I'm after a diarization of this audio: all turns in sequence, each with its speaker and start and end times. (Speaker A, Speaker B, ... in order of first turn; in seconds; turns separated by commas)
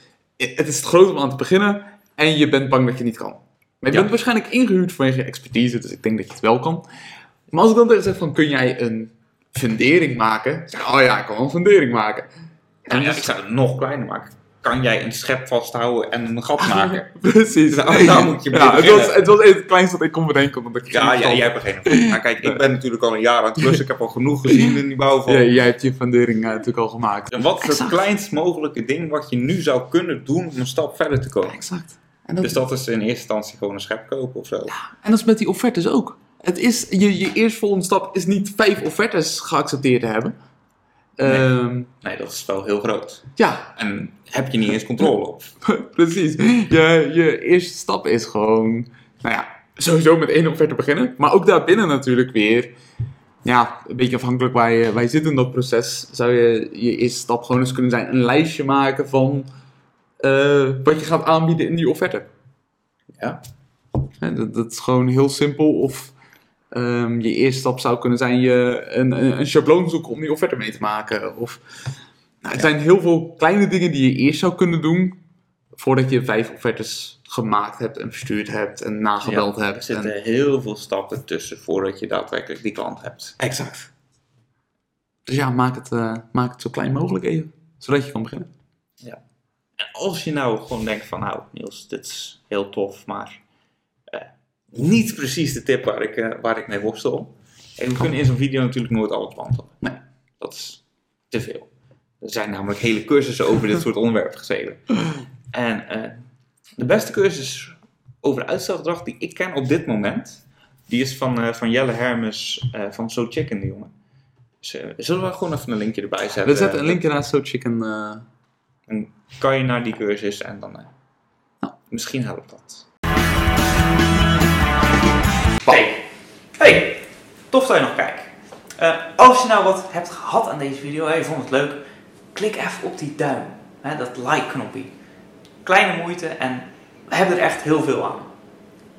Speaker A: 0.4-6.8, Speaker A: 7.5-12.3, Speaker A: 12.8-13.3, Speaker B: 12.9-17.1, Speaker A: 16.6-22.6, Speaker B: 17.7-19.2, Speaker B: 20.9-25.5, Speaker A: 25.3-28.0, Speaker B: 27.3-31.6, Speaker A: 31.4-32.6, Speaker B: 32.4-34.7, Speaker A: 34.7-40.3, Speaker A: 41.2-41.9, Speaker B: 41.2-41.5, Speaker B: 42.0-43.2, Speaker A: 43.4-43.7, Speaker B: 43.8-45.5, Speaker A: 45.6-52.7, Speaker A: 53.4-59.5, Speaker A: 60.2-62.3, Speaker A: 64.2-66.1, Speaker A: 66.7-71.6, Speaker A: 72.4-75.2, Speaker A: 75.8-80.1, Speaker B: 79.2-83.5, Speaker A: 83.4-83.9, Speaker A: 85.3-88.5, Speaker B: 89.8-93.4, Speaker B: 94.1-101.7, Speaker B: 102.2-105.0, Speaker B: 105.5-106.2, Speaker B: 106.8-113.9, Speaker B: 114.6-117.0, Speaker A: 116.4-118.2, Speaker B: 118.9-120.9, Speaker B: 121.9-122.8, Speaker B: 125.6-126.0, Speaker B: 126.6-127.0, Speaker B: 127.5-131.8, Speaker B: 132.3-134.9, Speaker B: 135.6-138.3